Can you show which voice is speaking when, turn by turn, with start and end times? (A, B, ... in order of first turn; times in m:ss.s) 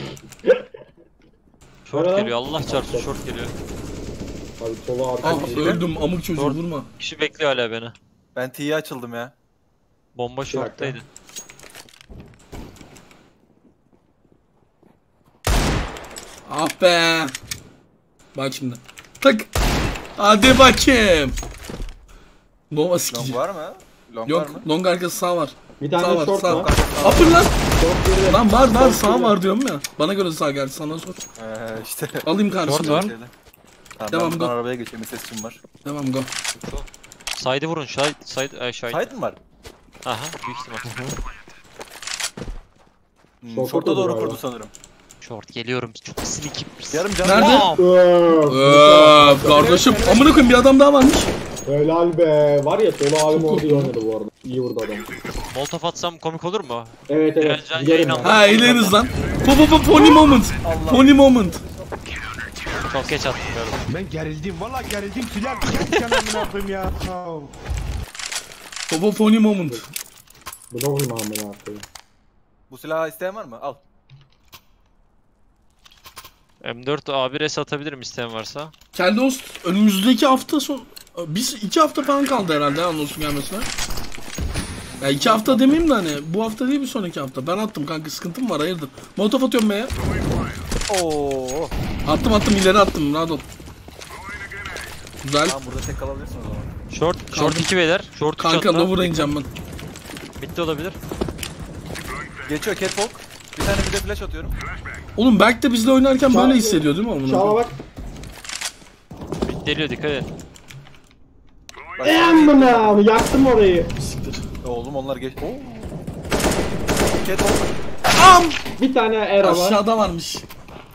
0:01.9-0:03.5 A
0:01.9-0:03.2 B
0:04.6-0:06.0 B
0:05.2-0:05.8 C
0:05.2-0:06.9 D
0:06.3-0:07.9 A
0:08.3-0:09.3 C
0:10.1-0:11.0 A
0:10.5-0:11.0 B
0:16.4-0:17.3 D
0:18.3-0:19.5 D
0:20.2-0:21.4 D
0:22.7-0:23.4 D
0:23.1-0:24.7 C
0:24.2-0:27.5 D
0:25.8-0:29.4 B
0:26.4-0:27.4 C
0:28.2-0:31.2 D
0:31.4-0:33.3 C
0:32.2-0:33.1 D
0:32.6-0:33.1 A
0:34.0-0:35.6 C
0:34.1-0:34.5 D
0:35.8-0:36.3 D
0:36.6-0:36.8 A
0:37.4-0:39.1 A
0:38.9-0:39.4 C
0:40.0-0:41.2 A
0:43.4-0:44.7 C
0:43.5-0:44.4 B
0:45.2-0:47.9 A
0:46.9-0:47.7 C
0:47.2-0:47.7 D
0:47.6-0:49.8 B
0:48.5-0:51.3 D
0:49.8-0:50.5 E
0:51.6-0:55.1 B
0:53.3-0:53.9 D
0:55.5-0:59.0 A
0:57.1-0:58.8 B
0:58.2-1:01.6 D
1:00.6-1:01.1 C
1:00.9-1:01.9 B
1:02.9-1:03.8 A
1:03.9-1:07.6 E
1:08.9-1:09.9 D
1:10.7-1:11.8 B
1:12.7-1:13.8 C
1:16.6-1:18.7 A
1:18.9-1:23.7 D
1:24.9-1:25.6 C
1:25.0-1:29.9 D
1:30.9-1:31.7 C
1:32.1-1:33.4 D
1:35.2-1:35.6 D
1:35.4-1:36.7 C
1:36.9-1:39.3 A
1:37.3-1:37.7 D
1:38.4-1:39.5 D
1:40.4-1:41.0 A
1:42.4-1:44.6 C
1:45.2-1:47.6 D
1:46.3-1:47.8 B
1:49.4-1:50.3 A
1:52.0-1:53.0 C
1:52.0-1:53.9 B
1:54.0-1:54.4 D
1:54.6-1:55.9 C
1:57.2-1:57.8 C
1:58.1-1:58.6 D
1:58.8-1:59.8 B
1:59.4-2:00.4 D